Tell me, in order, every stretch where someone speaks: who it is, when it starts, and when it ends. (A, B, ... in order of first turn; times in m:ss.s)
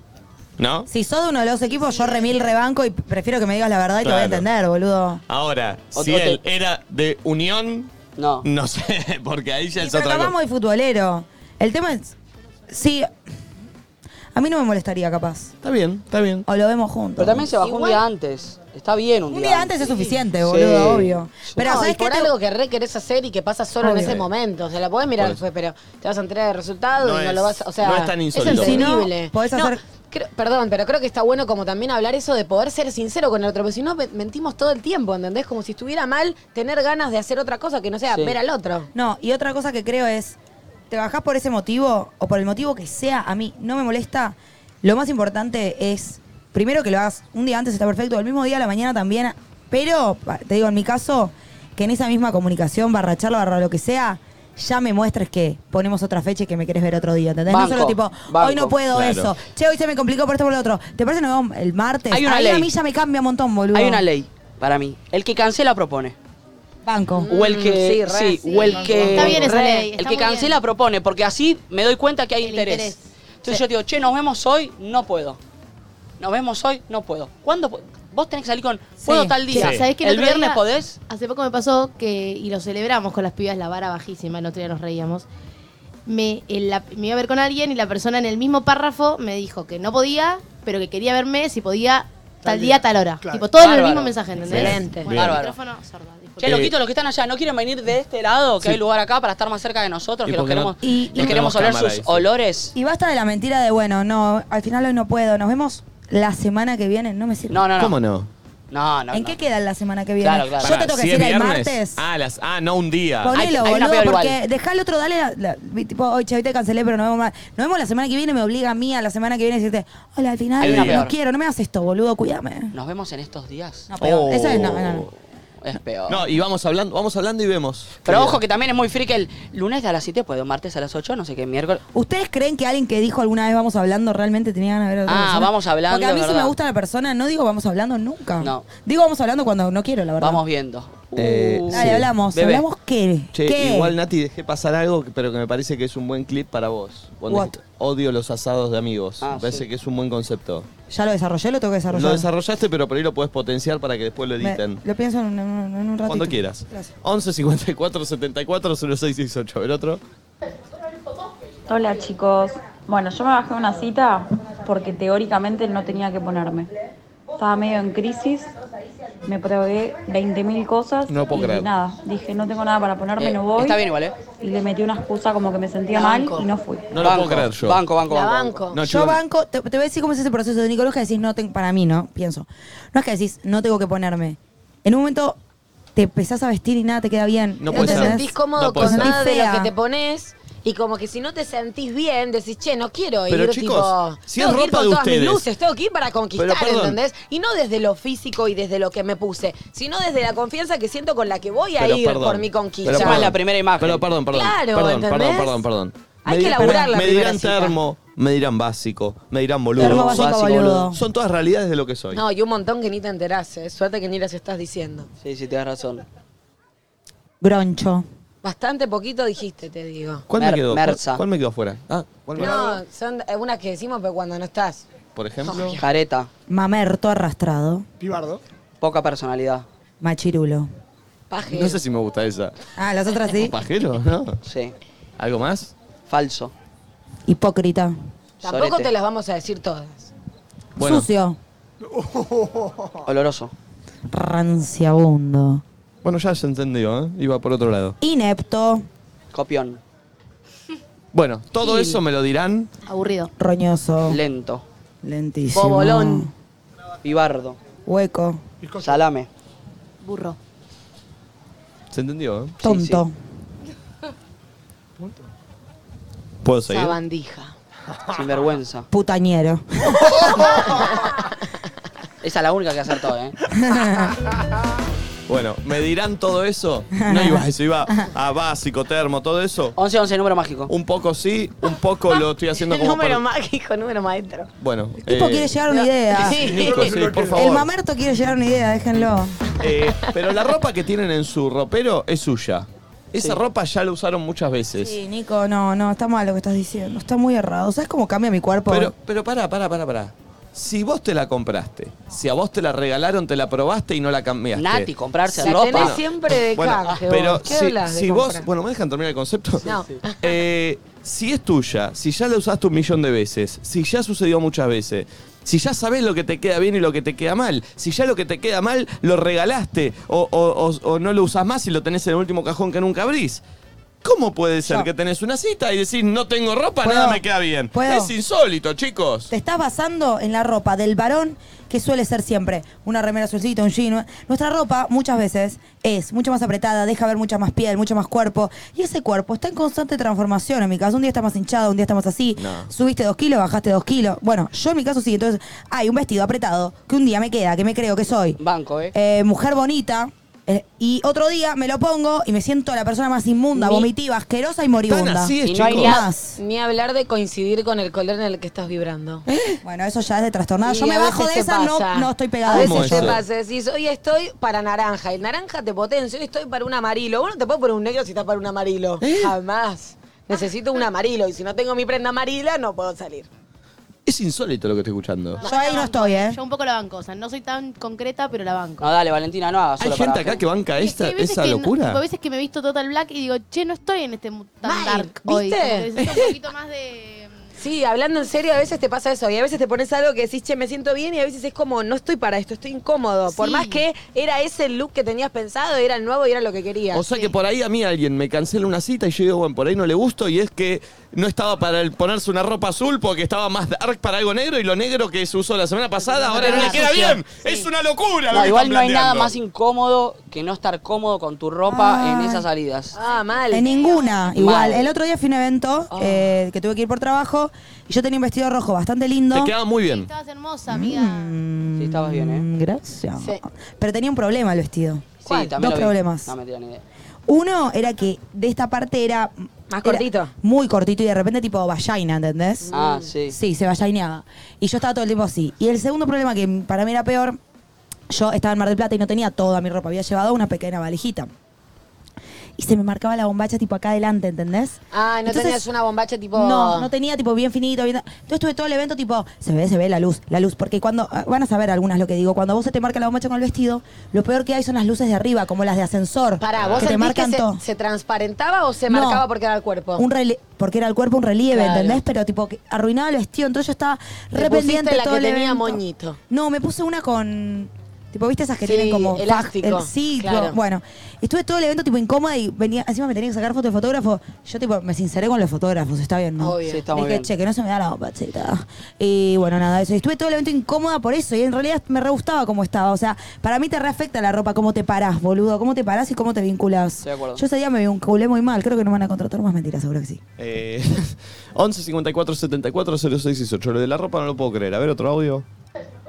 0:00.6-0:00.9 A
0:00.9-0:05.2 B
0:04.0-0:04.4 A
0:05.3-0:07.9 A
0:05.9-0:06.4 C
0:08.2-0:08.4 C
0:08.4-0:10.3 A
0:09.8-0:12.1 B
0:12.7-0:13.1 B
0:14.3-0:15.5 B
0:15.6-0:16.4 A
0:16.4-0:17.5 B
0:17.2-0:19.8 C
0:17.6-0:18.0 D
0:19.3-0:22.3 B
0:20.4-0:21.7 C
0:21.6-0:38.9 D
0:23.8-0:24.2 B
0:27.0-0:28.9 A
0:28.4-0:29.8 B
0:38.1-0:38.4 C
0:38.9-0:40.4 B
0:40.9-1:04.0 B
0:57.5-0:58.7 C
0:58.9-0:59.3 A
1:02.1-1:02.7 C
1:03.7-1:06.2 C
1:06.8-1:07.3 B
1:07.2-1:09.8 D
1:07.3-1:15.4 C
1:08.5-1:10.6 E
1:12.4-1:13.1 E
1:16.2-1:21.0 C
1:19.0-1:19.4 B
1:19.5-1:25.2 E
1:19.5-1:19.9 A
1:26.0-1:36.6 E
1:32.4-1:33.6 F
1:33.6-1:35.6 C
1:34.4-1:35.1 D
1:34.5-1:35.4 A
1:36.4-1:42.7 C
1:36.4-1:36.7 A
1:40.2-1:42.2 A
1:40.8-1:41.3 B
1:42.7-1:47.6 B
1:47.5-1:47.9 C
1:47.8-1:48.3 A
1:48.7-1:49.4 C
1:49.1-1:52.0 B
1:50.2-1:50.7 C
1:50.6-1:53.4 A
1:53.2-2:02.7 B
1:53.3-1:54.4 C
2:00.6-2:01.0 A
2:00.6-2:01.1 C
2:02.7-2:03.9 C
2:03.9-2:05.1 B
2:04.0-2:05.1 A
2:05.6-2:06.2 C
2:06.1-2:08.4 A
2:08.0-2:11.8 C
2:11.9-2:20.4 B
2:15.1-2:16.5 C
2:18.4-2:18.6 C
2:20.2-2:22.6 C
2:21.2-2:22.1 A
2:21.7-2:23.9 B
2:23.3-2:30.7 A
2:27.3-2:27.5 B
2:29.2-2:29.7 C
2:30.9-2:32.3 B
2:31.9-2:34.8 A
2:34.4-2:36.9 B
2:36.1-2:40.0 A
2:41.7-2:46.7 G
2:47.4-2:48.5 G
2:49.2-2:53.8 G
2:51.1-2:51.7 A
2:53.2-2:54.1 C
2:54.4-2:56.9 G
2:55.9-2:56.5 D
2:56.9-2:57.8 A
2:57.0-2:58.6 C
2:58.1-2:58.8 D
2:58.7-2:59.2 A
2:58.8-3:05.4 B
3:05.9-3:09.7 B
3:07.6-3:09.2 A
3:07.7-3:23.3 D
3:13.3-3:15.4 A
3:16.4-3:17.0 A
3:21.8-3:32.2 A
3:22.8-3:24.0 C
3:24.3-3:25.6 D
3:26.2-3:27.8 D
3:29.8-3:30.9 C
3:29.8-3:31.0 B
3:32.1-3:35.1 D
3:35.2-3:36.0 C
3:37.4-3:38.0 B
3:38.4-3:40.2 D
3:40.3-3:42.8 A
3:40.3-3:41.2 C
3:42.4-3:44.8 D
3:45.2-3:45.8 A
3:45.4-3:45.8 D
3:45.8-3:46.3 C
3:46.5-3:47.8 B
3:48.0-3:48.4 F
3:48.8-3:49.6 C
3:50.0-3:50.7 B
3:51.3-3:51.8 D
3:51.5-3:52.5 A
3:52.8-3:53.5 B
3:53.3-3:54.4 A
3:54.4-3:54.7 C
3:55.2-3:55.7 A
3:56.1-3:56.5 C
3:57.3-3:57.9 B
3:58.4-4:00.1 D
3:58.4-3:58.9 C
4:00.8-4:01.1 A
4:00.8-4:01.4 B
4:01.8-4:02.9 F
4:03.0-4:03.5 C
4:04.1-4:05.6 B
4:06.0-4:08.0 A
4:08.0-4:08.8 B
4:09.3-4:09.8 C
4:11.1-4:12.7 A
4:12.8-4:13.3 E
4:13.4-4:14.2 B
4:14.1-4:14.6 C
4:15.0-4:16.3 B
4:15.5-4:16.3 D
4:17.0-4:17.6 C
4:17.8-4:18.4 B
4:18.6-4:18.9 F
4:18.8-4:19.3 C
4:20.0-4:20.4 E
4:21.9-4:22.6 A
4:22.6-4:23.0 C
4:22.6-4:23.1 B
4:25.0-4:25.2 F
4:26.4-4:27.0 A
4:26.7-4:27.5 D
4:28.1-4:28.9 C
4:28.9-4:30.6 B
4:32.2-4:33.4 C
4:33.5-4:34.1 B
4:35.3-4:39.8 A
4:37.0-4:37.5 B
4:39.8-4:40.7 C
4:40.7-4:43.2 A
4:42.1-4:44.5 D
4:44.6-4:45.6 A
4:45.0-4:49.4 B
4:45.7-4:46.9 D
4:46.2-4:47.7 A
4:46.6-4:47.4 F
4:49.6-4:55.0 A
4:54.8-4:58.9 B
4:58.7-5:09.7 A
5:04.5-5:06.0 C
5:05.4-5:08.4 D
5:09.6-5:10.0 C
5:09.6-5:10.3 D
5:10.2-5:23.4 A
5:24.0-5:29.3 A
5:24.6-5:24.9 B
5:26.8-5:28.1 B
5:29.3-5:48.4 B
5:42.4-5:42.7 A
5:48.4-5:48.9 C
5:48.9-5:56.4 B
5:54.9-5:56.0 A
5:55.4-5:56.0 C
5:56.4-5:59.2 D
5:59.2-5:59.6 A
5:59.6-6:03.2 B
6:00.6-6:13.3 D
6:02.5-6:03.2 A
6:09.0-6:09.3 A
6:14.0-6:15.4 A
6:15.4-6:18.8 E
6:15.4-6:16.4 B
6:18.8-6:20.4 C
6:19.8-6:22.0 A
6:20.8-6:27.3 E
6:24.6-6:25.9 D
6:26.0-6:26.4 A
6:27.6-6:37.0 D
6:33.3-6:33.8 E
6:36.9-6:49.3 A
6:46.3-6:47.6 E
6:46.3-6:46.8 D
6:48.3-6:53.0 C
6:51.7-6:52.4 B
6:52.9-6:53.7 D
6:53.5-6:59.5 B
6:53.5-6:54.3 E
6:54.4-6:54.9 C
6:55.9-6:56.3 D
6:59.3-7:00.1 A
6:59.8-7:01.4 E
7:00.7-7:06.3 B
7:01.8-7:02.5 C
7:05.2-7:06.8 C
7:05.3-7:05.5 D
7:07.3-7:12.7 B
7:09.7-7:10.3 D
7:12.7-7:13.1 D
7:12.7-7:13.4 C
7:13.3-7:17.4 B
7:18.1-7:21.3 B
7:22.6-7:25.6 B
7:24.9-7:26.9 D
7:26.3-7:37.6 B
7:36.4-7:40.0 D
7:36.6-7:36.9 A
7:38.9-7:39.2 B
7:40.0-8:10.2 B
7:41.5-7:42.0 D
7:44.4-7:46.2 D
7:48.6-7:50.6 D
7:56.4-7:56.8 D
7:56.6-7:57.3 C
8:07.0-8:07.4 C
8:10.4-8:15.4 A